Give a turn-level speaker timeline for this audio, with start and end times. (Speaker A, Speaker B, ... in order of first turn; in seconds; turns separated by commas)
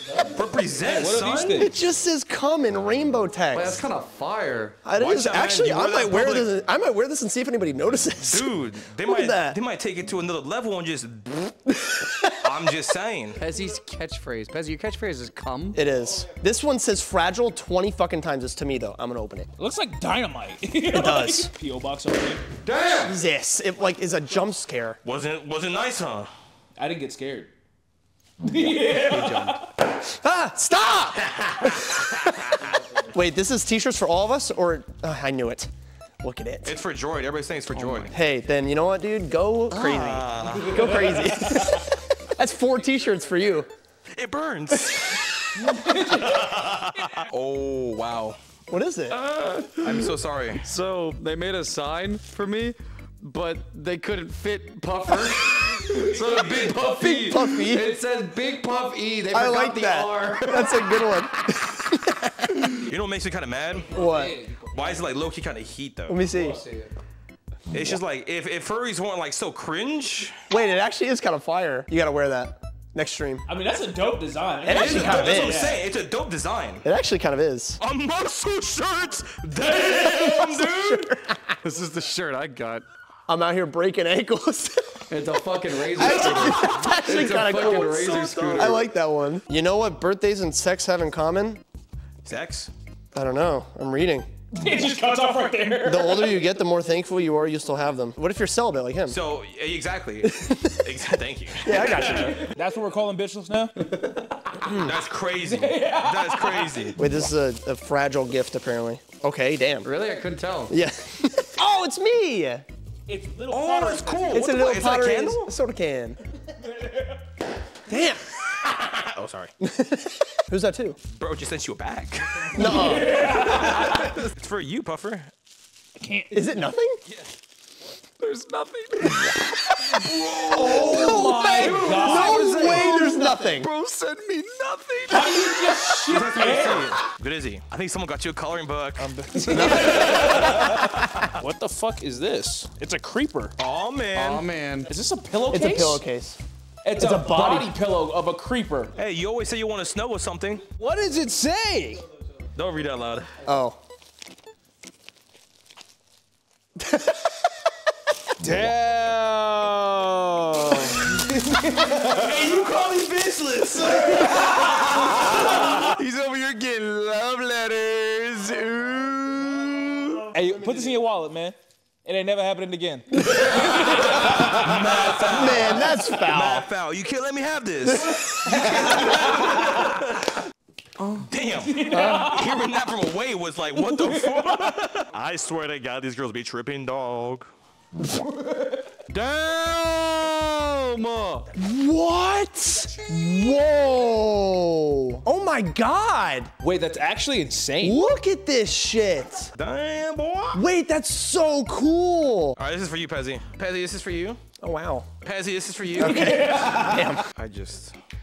Speaker A: 0.3-1.7, Speaker B: 0.8-1.8, Speaker C: 1.6-3.9, Speaker D: 3.5-4.8, Speaker C: 4.8-9.6, Speaker A: 5.0-6.5, Speaker A: 8.2-11.4, Speaker C: 11.7-12.2, Speaker A: 12.4-13.4, Speaker D: 13.4-15.8, Speaker C: 15.7-19.5, Speaker B: 19.6-22.4, Speaker C: 20.9-21.5, Speaker D: 22.6-23.2, Speaker C: 23.0-25.0, Speaker A: 25.0-26.3, Speaker B: 26.8-27.5, Speaker B: 28.4-29.7, Speaker D: 28.9-29.6, Speaker C: 30.0-32.6, Speaker A: 31.4-31.8, Speaker C: 33.1-35.7, Speaker C: 36.2-36.8, Speaker A: 36.6-38.1, Speaker D: 37.8-38.1, Speaker C: 38.1-43.7, Speaker A: 39.7-41.2, Speaker A: 44.2-48.4, Speaker B: 45.6-46.4, Speaker C: 48.7-49.2, Speaker D: 49.1-61.6, Speaker A: 49.8-50.7, Speaker A: 56.1-56.8, Speaker C: 56.9-58.0, Speaker C: 59.3-62.8, Speaker A: 62.8-63.9, Speaker B: 63.9-65.0, Speaker C: 63.9-64.4, Speaker A: 64.7-66.2, Speaker C: 66.1-66.6, Speaker D: 66.3-66.9, Speaker A: 67.7-70.3, Speaker C: 70.5-73.5, Speaker B: 73.5-75.8, Speaker C: 74.6-75.8, Speaker A: 74.7-76.8, Speaker C: 76.8-77.8, Speaker A: 77.8-81.1, Speaker C: 79.9-81.6, Speaker D: 81.6-82.9, Speaker C: 83.3-85.0, Speaker D: 85.1-88.8, Speaker C: 86.0-91.6, Speaker A: 86.0-86.9, Speaker A: 92.2-92.7, Speaker C: 93.1-94.3, Speaker B: 94.5-96.4, Speaker C: 95.8-99.2, Speaker A: 99.1-102.4, Speaker C: 100.2-101.0, Speaker C: 101.6-102.5, Speaker B: 102.0-103.8, Speaker D: 103.9-104.2, Speaker C: 104.7-105.0, Speaker A: 104.7-107.0, Speaker B: 105.4-106.9, Speaker C: 107.0-109.9, Speaker D: 109.8-110.8, Speaker C: 110.7-112.7, Speaker B: 113.1-114.7, Speaker A: 113.5-115.5, Speaker C: 114.3-116.2, Speaker B: 116.6-117.2, Speaker C: 117.9-118.2, Speaker A: 118.9-119.5, Speaker C: 119.6-121.0, Speaker A: 121.1-125.3, Speaker C: 122.5-123.3, Speaker B: 122.6-124.1, Speaker B: 126.0-126.4, Speaker C: 126.3-127.0, Speaker D: 128.2-129.4, Speaker A: 129.9-133.2, Speaker B: 130.5-132.4, Speaker C: 130.6-133.7, Speaker D: 131.1-136.9, Speaker B: 135.1-137.0, Speaker A: 136.1-141.3, Speaker B: 139.0-143.5, Speaker A: 143.6-144.4, Speaker D: 144.1-144.9, Speaker B: 144.9-146.0, Speaker C: 145.5-146.4, Speaker B: 146.8-148.9, Speaker C: 147.0-147.7, Speaker A: 149.0-150.6, Speaker B: 150.8-152.0, Speaker A: 152.6-153.3, Speaker C: 153.4-153.8, Speaker C: 156.8-157.2, Speaker B: 158.4-162.3, Speaker A: 161.9-166.0, Speaker D: 165.2-170.3, Speaker B: 170.3-173.1, Speaker A: 173.3-180.4, Speaker B: 173.7-174.5, Speaker C: 175.3-176.7, Speaker C: 177.9-178.6, Speaker B: 178.3-179.5, Speaker D: 181.0-181.3, Speaker A: 181.3-187.5, Speaker B: 181.7-182.7, Speaker C: 181.9-182.4, Speaker B: 183.8-184.7, Speaker D: 189.1-191.5, Speaker C: 191.6-196.5, Speaker B: 196.6-198.0, Speaker C: 197.8-199.5, Speaker A: 199.6-200.6, Speaker C: 200.5-202.6, Speaker A: 202.6-204.4, Speaker C: 204.6-205.1, Speaker A: 205.2-208.0, Speaker C: 206.0-207.3, Speaker B: 206.0-207.1